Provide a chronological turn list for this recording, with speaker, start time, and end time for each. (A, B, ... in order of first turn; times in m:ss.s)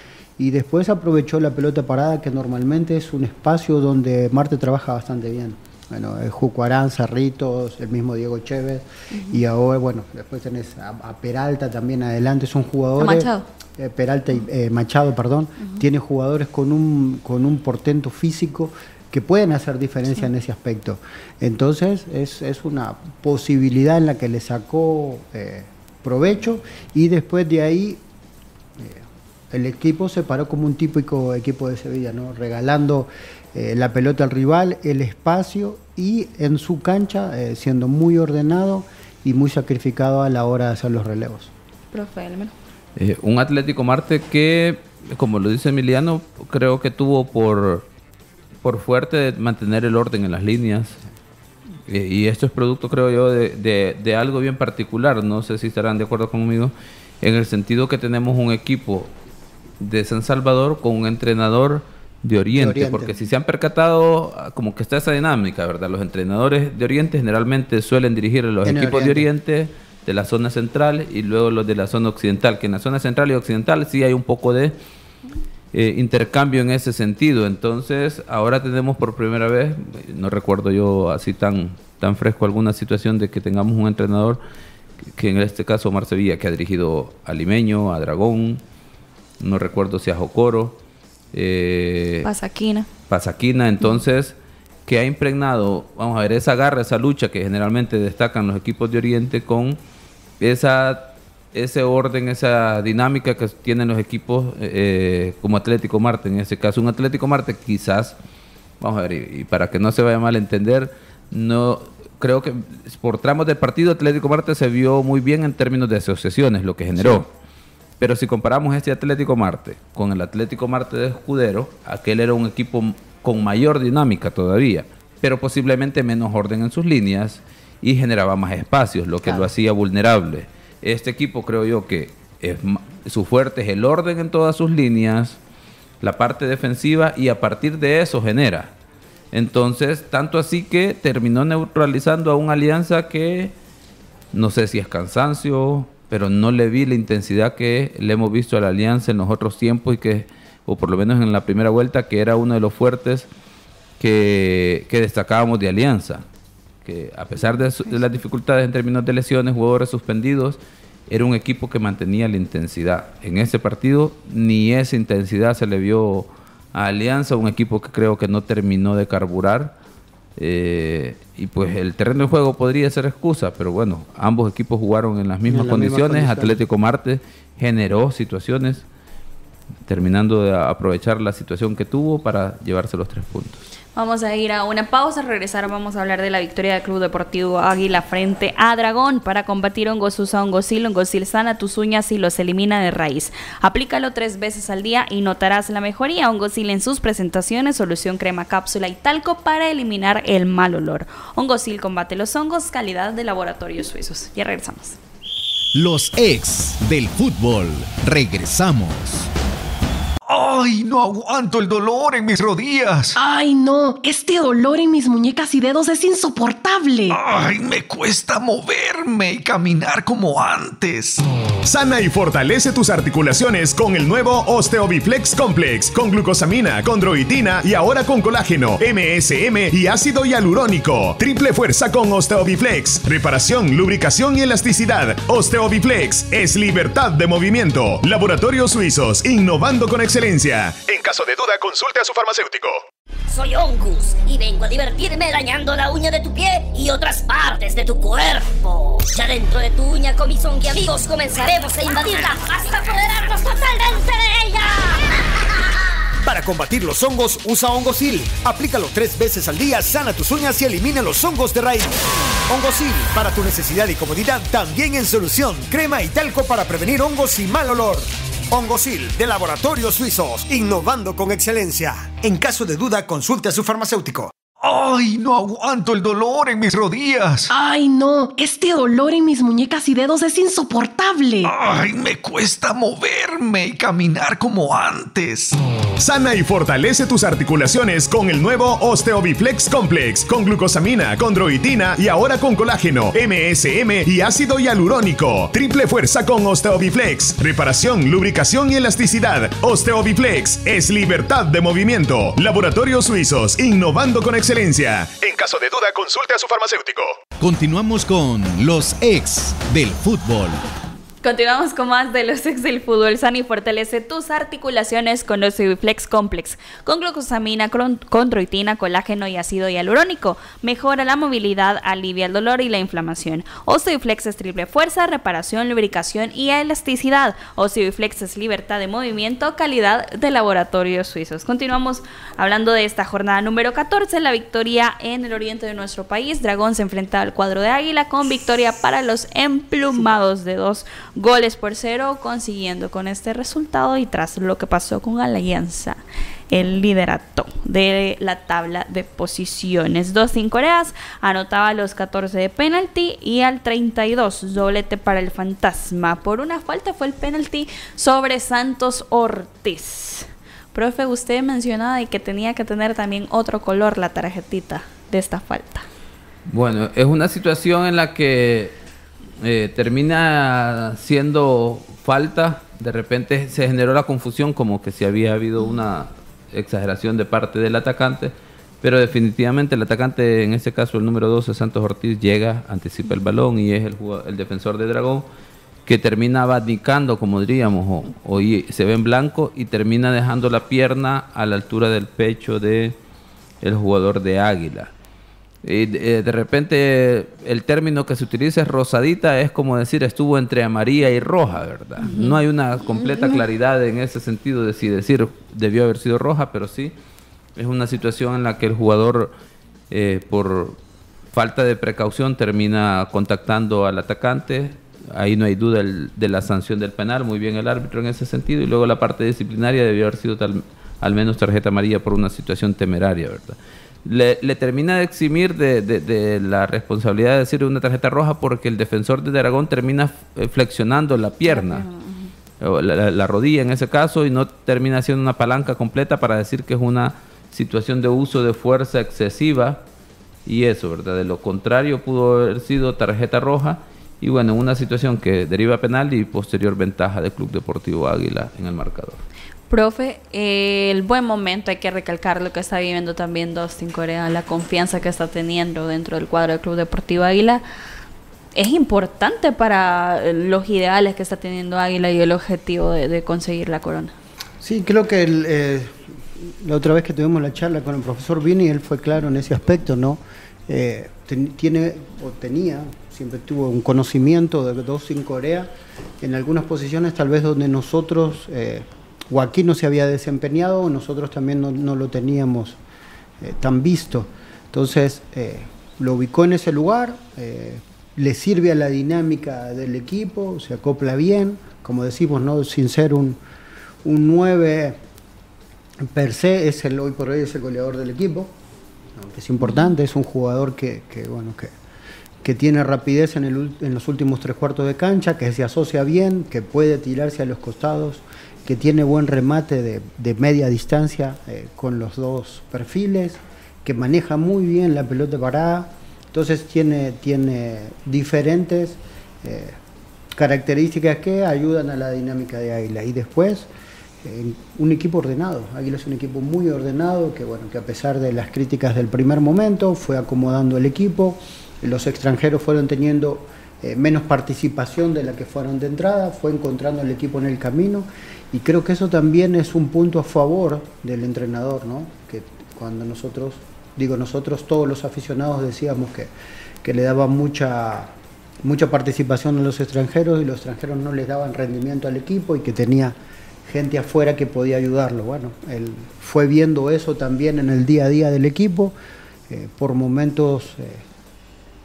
0:00.4-0:28.0 A
0:09.1-0:09.4 B
0:13.0-0:13.4 B
0:28.8-0:41.5 A
0:41.9-0:42.5 B
0:43.0-0:47.9 C
0:48.6-0:51.0 C
0:51.9-0:59.1 C
0:59.8-1:14.8 C
1:02.5-1:03.2 A
1:08.6-1:09.3 A
1:15.7-1:24.4 C
1:25.2-1:28.6 C
1:29.4-1:30.8 C
1:31.3-1:32.3 C
1:32.2-1:32.9 B
1:33.1-1:34.4 C
1:34.9-1:39.8 C
1:40.4-1:48.2 C
1:48.8-1:57.3 C
1:57.0-1:57.2 A
1:58.0-2:15.4 C
2:16.0-2:18.7 C
2:19.3-2:23.6 C
2:24.3-2:33.3 C
2:34.0-2:36.2 C
2:36.8-2:49.7 C
2:50.4-2:58.9 C
2:55.5-2:56.6 A
2:59.9-3:03.7 C
3:04.0-3:25.0 B
3:25.8-3:29.3 D
3:30.2-3:33.2 E
3:33.2-3:37.2 F
3:37.1-3:41.2 E
3:41.6-4:02.8 G
4:03.3-4:15.1 H
4:16.2-4:34.3 I
4:34.6-4:37.5 E
4:37.5-4:41.5 F
4:41.4-4:45.6 E
4:46.0-5:07.2 G
5:07.4-5:10.6 D
5:11.2-6:05.9 B
6:06.5-6:08.8 C
6:09.4-6:25.3 C
6:25.9-6:33.0 C
6:33.6-6:34.9 C
6:35.6-6:46.9 C
6:42.0-6:42.4 B
6:43.0-6:43.4 B
6:47.6-6:49.3 C
6:49.9-6:50.8 C
6:51.3-7:11.9 C
7:11.5-7:12.3 B
7:12.6-7:19.8 C
7:20.5-7:29.2 C
7:29.7-7:37.6 B
7:38.5-7:44.1 B
7:44.6-8:02.8 A
8:03.4-8:13.4 A
8:14.0-8:15.0 A
8:16.0-8:18.5 A
8:19.2-8:21.7 A
8:22.4-8:39.8 A
8:40.3-8:43.7 A
8:44.2-9:06.3 A
9:06.8-9:19.0 A
9:19.5-9:21.0 A